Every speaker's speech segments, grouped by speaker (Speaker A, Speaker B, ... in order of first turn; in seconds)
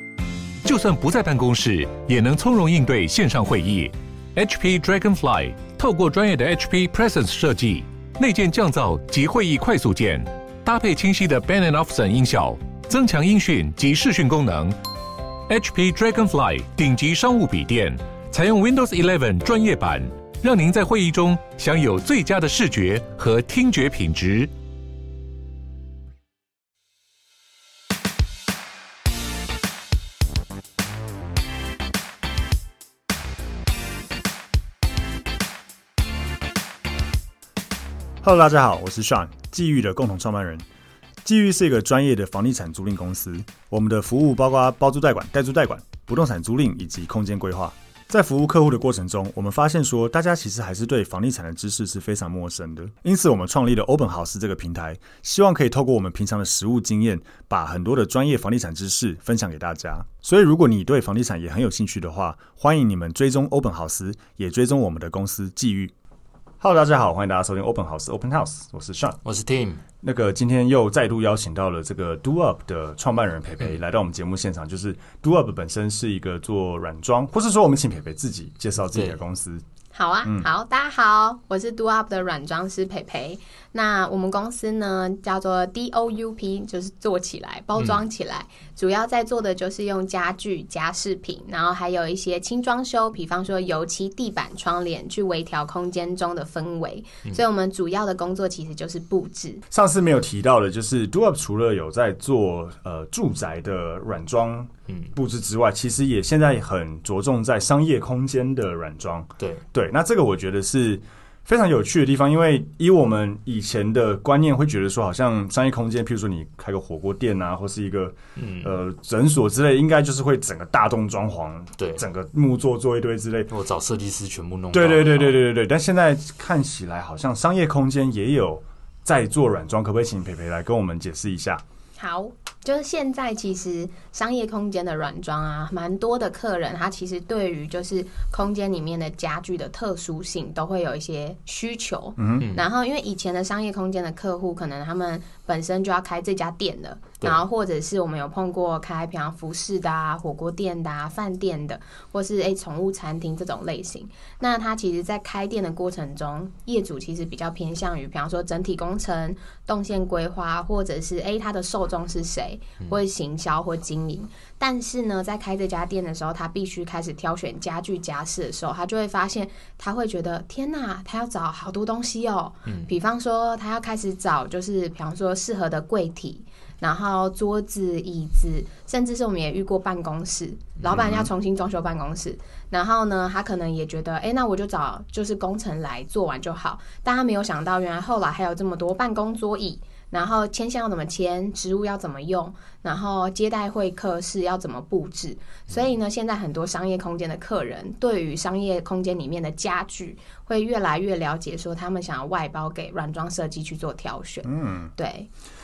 Speaker A: 0.6-14.8, 15.5-24.5
Speaker B: 38.2-40.6, 41.2-65.9, 66.6-69.2, 70.0-79.6, 99.7-123.5, 124.7-131.6, 142.2-142.5, 204.4-204.9
Speaker C: 69.2-69.8, 118.4-118.7, 121.8-122.0, 123.5-125.4, 142.4-142.6, 172.7-172.9, 180.8-181.3
Speaker D: 79.9-99.6, 132.0-205.3